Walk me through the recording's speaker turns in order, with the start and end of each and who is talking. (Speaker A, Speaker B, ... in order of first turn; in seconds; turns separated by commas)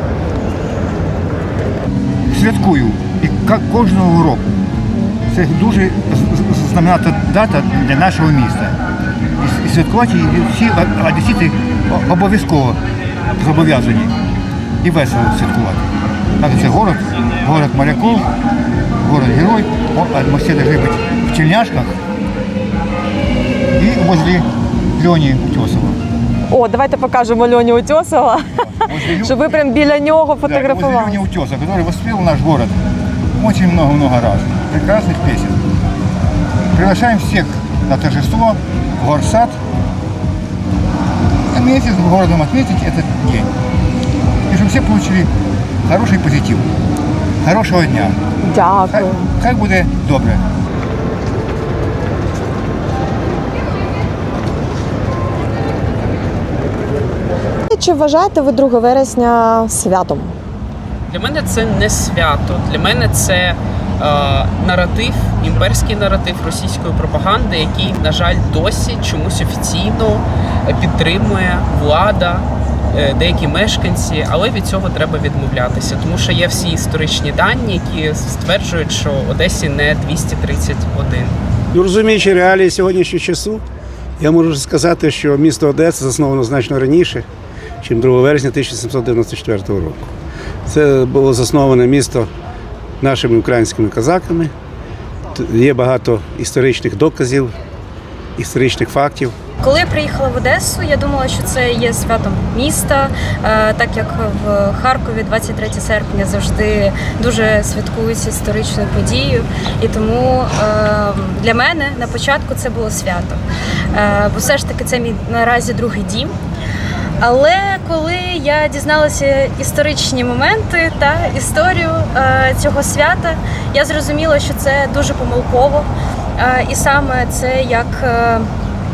Speaker A: 2.3-4.5, Speaker A: 5.3-8.8, Speaker A: 9.4-12.8, Speaker A: 13.4-14.1, Speaker A: 14.8-15.8, Speaker A: 16.4-18.3, Speaker A: 19.0-22.0, Speaker A: 23.8-24.5, Speaker A: 25.0-26.0, Speaker B: 26.5-28.5, Speaker A: 28.6-29.4, Speaker B: 29.3-31.1, Speaker A: 30.5-32.8, Speaker A: 33.4-35.6, Speaker A: 36.7-39.6, Speaker A: 41.5-43.5, Speaker A: 44.5-45.3, Speaker A: 45.9-46.7, Speaker A: 47.4-48.2, Speaker B: 48.5-49.2, Speaker A: 48.9-50.4, Speaker B: 57.7-60.2, Speaker C: 61.1-81.4, Speaker D: 81.7-83.6, Speaker D: 84.2-87.2, Speaker D: 87.8-90.1, Speaker D: 90.7-92.3, Speaker D: 93.0-94.5, Speaker D: 95.3-97.5, Speaker D: 98.4-99.3, Speaker E: 99.6-113.4, Speaker E: 113.9-116.3, Speaker E: 117.2-128.5